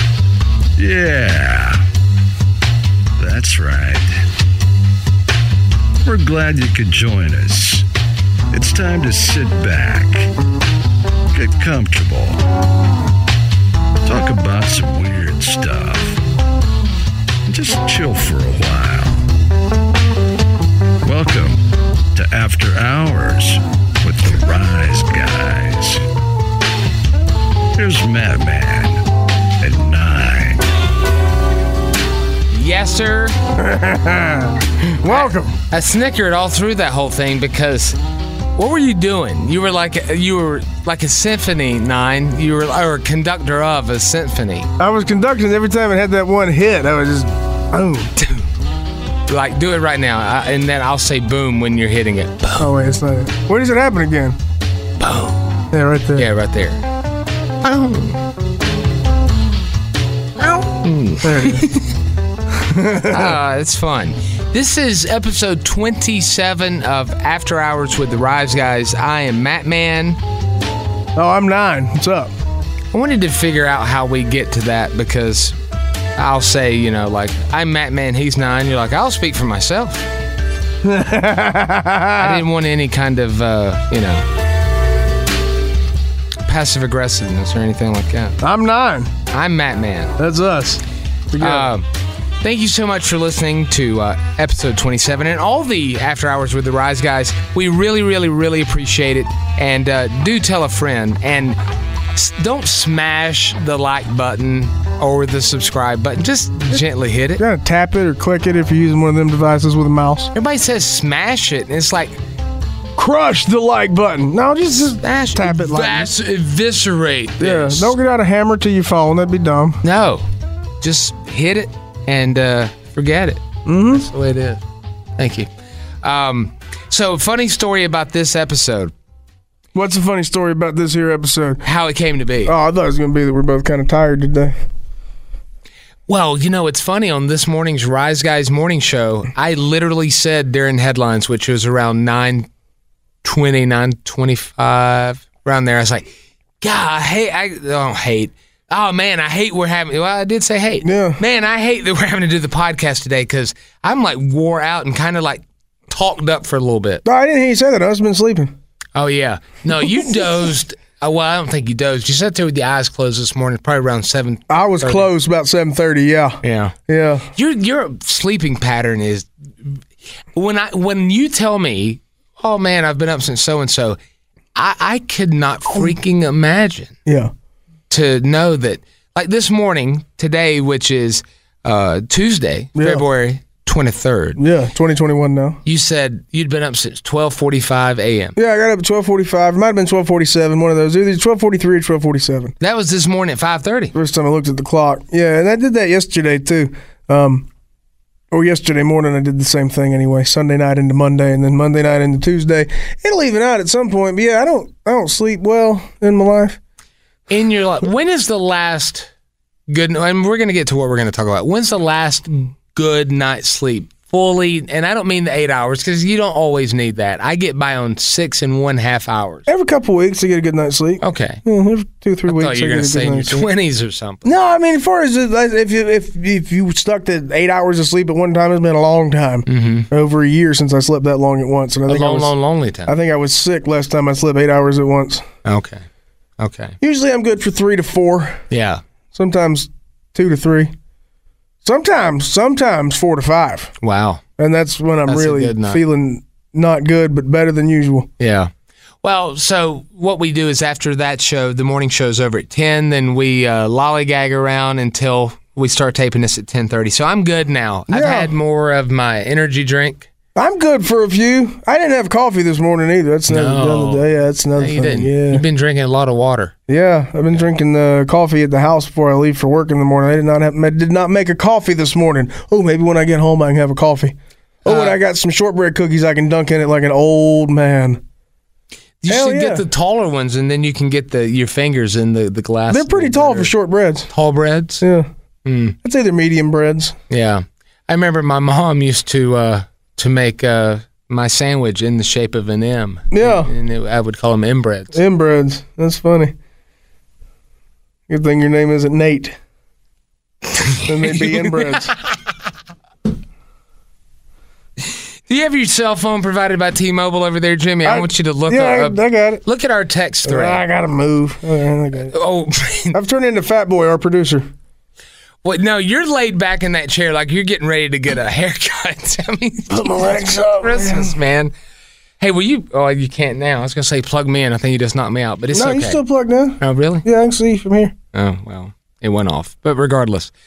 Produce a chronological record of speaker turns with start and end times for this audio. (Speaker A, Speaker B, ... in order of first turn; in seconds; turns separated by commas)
Speaker A: 0.8-1.9, Speaker A: 3.2-4.1, Speaker A: 6.0-7.9, Speaker A: 8.5-10.3, Speaker A: 11.3-12.4, Speaker A: 14.1-16.2, Speaker A: 17.5-19.2, Speaker A: 21.0-26.0, Speaker A: 27.8-29.0, Speaker A: 29.6-30.7, Speaker B: 32.5-33.4, Speaker C: 33.6-35.6, Speaker B: 35.1-38.0, Speaker B: 38.6-44.7, Speaker C: 44.8-48.1, Speaker B: 48.2-48.5, Speaker B: 49.3-52.7, Speaker C: 52.6-54.4, Speaker B: 55.0-55.4, Speaker C: 55.7-56.3, Speaker B: 56.2-56.8, Speaker B: 57.6-58.2, Speaker B: 60.4-61.9, Speaker C: 61.2-61.7, Speaker C: 62.5-63.4, Speaker B: 63.1-70.2, Speaker C: 71.2-72.3, Speaker B: 72.9-75.5, Speaker B: 76.2-80.1, Speaker C: 80.8-82.5, Speaker B: 82.2-84.2, Speaker B: 86.5-88.4, Speaker C: 88.4-89.1, Speaker B: 89.3-90.2, Speaker C: 90.2-91.7, Speaker B: 91.4-91.9, Speaker B: 92.4-101.6, Speaker B: 102.1-107.4, Speaker C: 107.4-110.3, Speaker B: 110.3-112.2, Speaker C: 113.0-116.1, Speaker B: 115.0-118.0, Speaker C: 117.4-119.8, Speaker B: 119.8-120.2, Speaker B: 120.8-124.6, Speaker C: 123.7-124.1, Speaker B: 125.2-125.5, Speaker B: 126.0-128.9, Speaker C: 129.8-131.6, Speaker B: 131.6-132.5, Speaker C: 132.5-134.6, Speaker B: 136.1-142.5, Speaker B: 143.2-146.1, Speaker B: 146.6-157.0, Speaker C: 150.8-151.2, Speaker C: 157.1-158.6, Speaker B: 159.0-165.1, Speaker C: 164.5-167.3, Speaker B: 166.4-166.7, Speaker B: 167.3-169.8, Speaker B: 170.3-174.0, Speaker B: 174.6-176.9, Speaker C: 177.1-177.3, Speaker B: 177.9-184.4, Speaker C: 182.8-183.0, Speaker C: 184.4-185.6, Speaker B: 185.7-188.4, Speaker C: 188.4-192.5, Speaker B: 192.6-193.9, Speaker C: 193.9-197.5, Speaker C: 198.3-206.6, Speaker B: 207.3-209.1, Speaker B: 209.7-219.5, Speaker C: 219.5-223.5, Speaker B: 221.0-221.4, Speaker B: 222.3-224.3, Speaker C: 224.2-232.3, Speaker B: 229.5-229.9, Speaker B: 231.9-232.9, Speaker C: 232.9-235.2, Speaker B: 235.4-235.8, Speaker B: 236.4-236.8, Speaker C: 236.8-238.4, Speaker B: 238.5-238.8, Speaker C: 239.1-240.7, Speaker C: 241.6-243.7, Speaker B: 243.8-244.2, Speaker C: 244.4-248.1, Speaker B: 245.1-245.8, Speaker B: 248.2-248.5, Speaker B: 249.0-260.1, Speaker C: 257.9-258.3, Speaker C: 260.4-265.4, Speaker B: 263.3-264.1, Speaker B: 264.6-266.5, Speaker C: 266.7-278.0, Speaker B: 274.7-275.0, Speaker B: 279.0-283.5, Speaker C: 279.1-279.6, Speaker C: 282.7-284.1, Speaker B: 284.1-284.8, Speaker C: 284.8-285.1, Speaker B: 285.4-285.8, Speaker C: 285.8-287.0, Speaker B: 287.1-295.0, Speaker C: 293.1-293.5, Speaker C: 294.9-296.3, Speaker C: 298.1-299.4, Speaker B: 300.6-302.2, Speaker C: 300.8-301.9, Speaker B: 305.3-310.6, Speaker C: 307.8-309.4, Speaker C: 310.2-312.1, Speaker B: 312.1-313.0, Speaker C: 312.9-314.5, Speaker B: 315.4-321.5, Speaker C: 319.7-321.1, Speaker B: 322.2-326.0, Speaker C: 325.5-327.9, Speaker B: 326.6-327.1, Speaker B: 328.1-330.3